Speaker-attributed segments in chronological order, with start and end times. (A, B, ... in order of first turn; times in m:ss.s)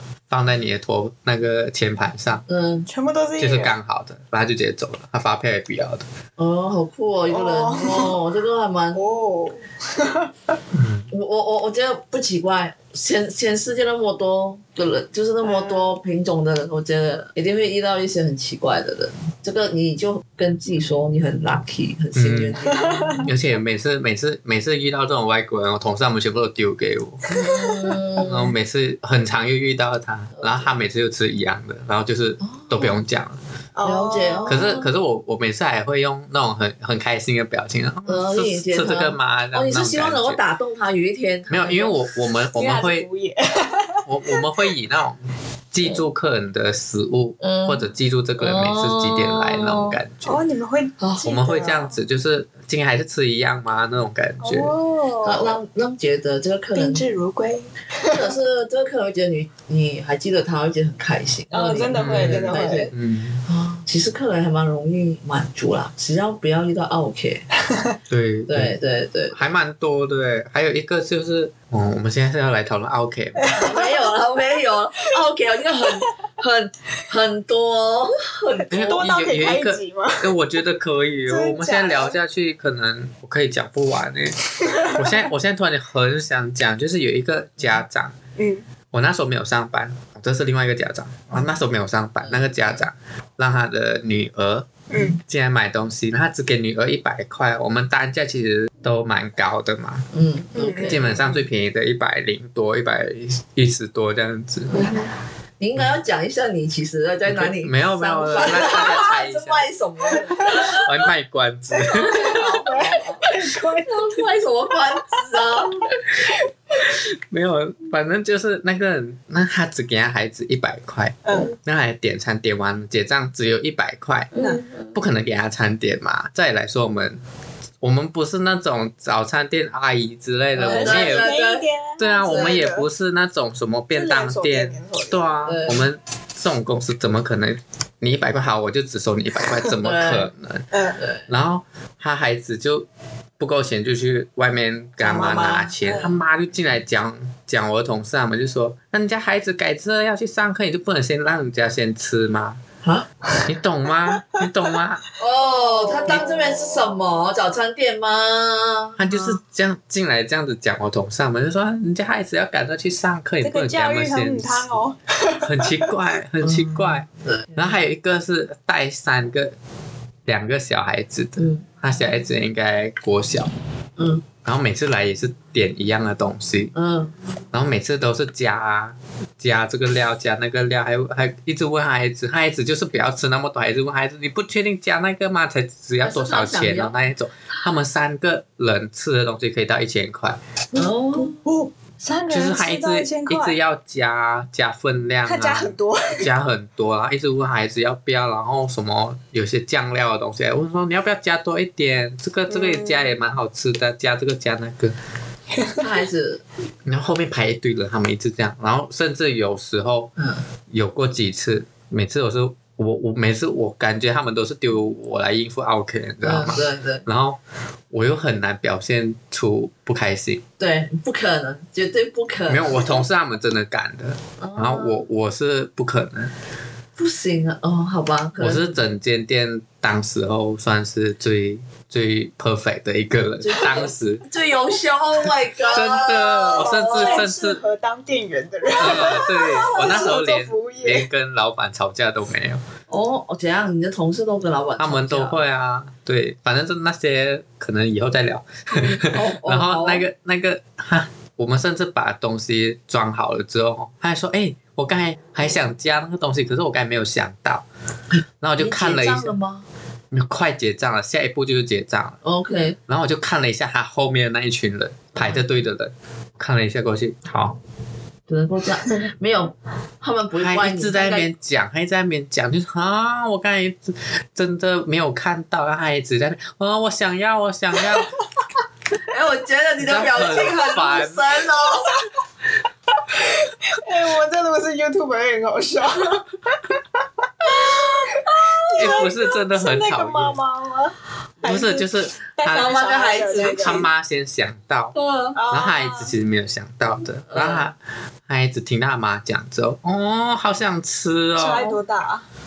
0:00.3-0:02.4 A
0:02.5-0:02.9 B
0:02.9-0:03.8 C
0:03.4-0:06.0 A
0:06.4-0:09.0 B
0:07.3-0:08.2 C
0:08.9-0:10.6 C
0:10.7-0:11.1 A
0:11.1-0:23.3 B
0:15.4-0:16.0 C
0:22.1-0:22.6 A
0:22.7-0:23.2 C
0:23.2-0:27.3 A
0:27.3-0:28.5 B
0:28.2-0:33.4 A
0:30.4-0:30.6 B
0:32.4-0:33.0 B
0:33.8-0:34.7 C
0:33.8-0:34.9 B
0:34.4-0:40.4 A
0:38.0-0:41.9 B
0:41.5-0:43.1 A
0:42.4-0:44.5 C
0:44.0-0:50.4 A
0:47.4-0:47.8 B
0:48.4-0:50.0 B
0:50.2-0:51.9 C
0:51.0-0:51.6 B
0:51.2-0:54.7 A
0:54.4-0:55.6 C
0:55.2-0:57.0 B
0:56.7-0:58.3 C
0:58.0-1:02.9 B
1:01.5-1:02.9 C
1:01.9-1:03.4 A
1:03.4-1:07.4 B
1:08.1-1:08.8 A
1:08.5-1:09.4 B
1:09.3-1:13.5 A
1:13.4-1:14.0 C
1:13.5-1:19.1 B
1:18.6-1:20.3 C
1:18.7-1:28.2 A
1:21.3-1:22.2 C
1:24.6-1:25.2 C
1:28.4-1:28.6 C
1:28.9-1:40.1 A
1:32.2-1:32.7 B
1:34.9-1:35.2 C
1:40.1-1:41.3 B
1:40.6-1:41.2 C
1:40.8-1:44.8 A
1:44.8-1:45.0 C
1:45.6-1:50.9 B
1:47.3-1:49.7 A
1:48.4-1:48.7 C
1:50.2-1:50.8 C
1:50.5-1:52.4 A
1:51.9-1:54.2 C
1:52.0-1:53.3 B
1:53.8-1:56.0 B
1:56.2-1:56.9 C
1:56.9-2:04.3 A
2:01.2-2:01.5 C
2:04.3-2:04.9 B
2:04.4-2:04.7 C
2:04.9-2:07.2 A
2:07.8-2:11.3 A
2:10.6-2:12.9 C
2:10.6-2:11.6 B
2:12.0-2:20.7 A
2:12.2-2:12.5 B
2:13.9-2:15.2 C
2:15.4-2:15.9 B
2:19.8-2:20.3 B
2:20.7-2:21.0 C
2:21.0-2:21.2 B
2:21.3-2:22.8 A
2:23.4-2:32.6 A
2:25.0-2:26.2 C
2:33.4-2:35.0 A
2:35.2-2:39.0 B
2:35.4-2:37.0 C
2:39.0-2:44.7 A
2:43.4-2:45.9 C
2:45.4-2:49.5 A
2:46.4-2:47.6 B
2:50.2-2:53.5 A
2:54.0-2:54.2 B
2:54.4-2:56.7 A
2:56.7-2:57.1 B
2:57.5-3:10.4 A
3:06.0-3:06.9 B
3:10.7-3:13.6 C
3:10.7-3:11.4 B
3:12.3-3:24.9 A
3:15.2-3:16.3 C
3:22.5-3:23.1 C
3:25.6-3:25.8 C
3:25.8-3:26.4 B
3:26.8-3:30.1 A
3:30.2-3:30.4 B
3:30.7-3:37.4 A
3:36.2-3:37.0 B
3:37.9-3:40.4 A
3:40.6-3:42.9 B
3:42.5-3:46.3 A
3:44.4-3:45.0 B
3:47.0-3:48.8 B
3:48.4-3:54.2 A
3:53.4-3:57.2 B
3:55.7-3:57.6 A
3:56.5-4:01.1 C
3:58.8-4:02.6 A
3:59.8-4:00.1 B
4:02.9-4:05.4 B
4:04.8-4:17.6 A
4:08.7-4:10.0 B
4:18.1-4:19.6 B
4:18.4-4:19.3 A
4:20.1-4:22.2 A
4:22.2-4:22.8 B
4:22.9-4:27.6 A
4:28.3-4:31.3 B
4:30.4-4:38.1 A
4:39.1-4:42.0 B
4:39.8-4:41.2 A
4:43.1-4:46.6 C
4:47.4-4:53.9 C
4:48.6-4:49.0 B
4:48.8-4:50.4 A
4:51.4-4:52.8 A
4:52.5-4:53.9 B
4:53.3-4:54.9 A
4:54.9-4:55.4 B
4:55.3-4:56.1 C
4:55.5-4:57.8 A
4:57.3-4:57.6 B
4:58.3-5:01.6 A
5:01.4-5:02.2 C
5:01.5-5:01.8 B